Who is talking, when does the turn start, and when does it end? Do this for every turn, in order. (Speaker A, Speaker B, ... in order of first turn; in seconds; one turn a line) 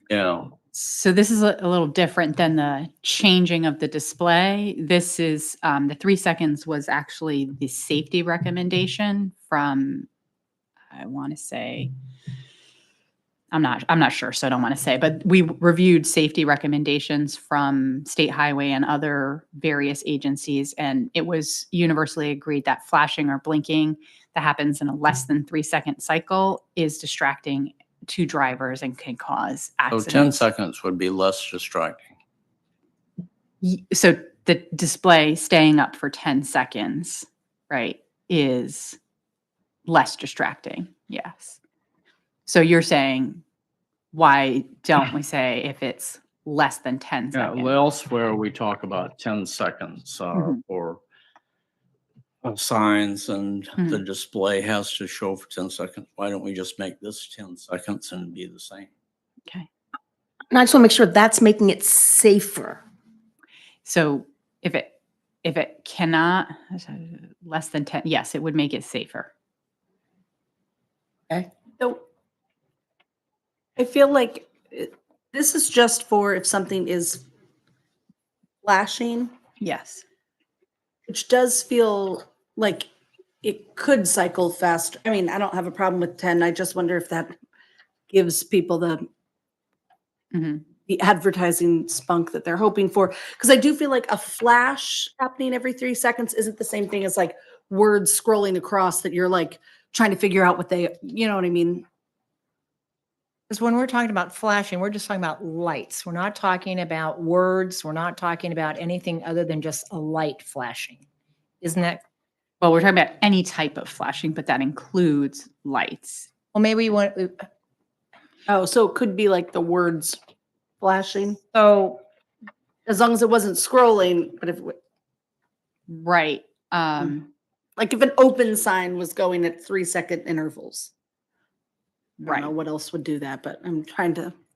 Speaker A: 0.1-0.5
Speaker B: 0.7-10.1
Speaker B: 10.9-11.9
Speaker B: 13.5-30.4
Speaker A: 29.9-32.0
Speaker B: 33.6-39.0
Speaker B: 39.9-41.6
Speaker B: 42.5-43.4
Speaker B: 44.1-47.7
Speaker A: 47.3-51.0
Speaker A: 52.4-58.9
Speaker C: 60.5-62.8
Speaker B: 63.8-64.9
Speaker B: 65.4-69.3
Speaker D: 73.8-77.2
Speaker D: 78.6-79.3
Speaker B: 79.6-80.0
Speaker D: 81.1-82.9
Speaker D: 83.4-87.3
Speaker D: 88.1-89.0
Speaker B: 90.3-90.6
Speaker D: 90.9-101.8
Speaker E: 103.5-111.0
Speaker E: 111.6-112.0
Speaker B: 112.6-116.3
Speaker E: 116.5-117.4
Speaker D: 118.5-120.2
Speaker D: 120.8-121.4
Speaker E: 121.5-122.0
Speaker D: 122.8-124.8
Speaker B: 125.9-127.3
Speaker D: 127.8-130.9
Speaker B: 132.2-132.5
Speaker D: 132.2-134.3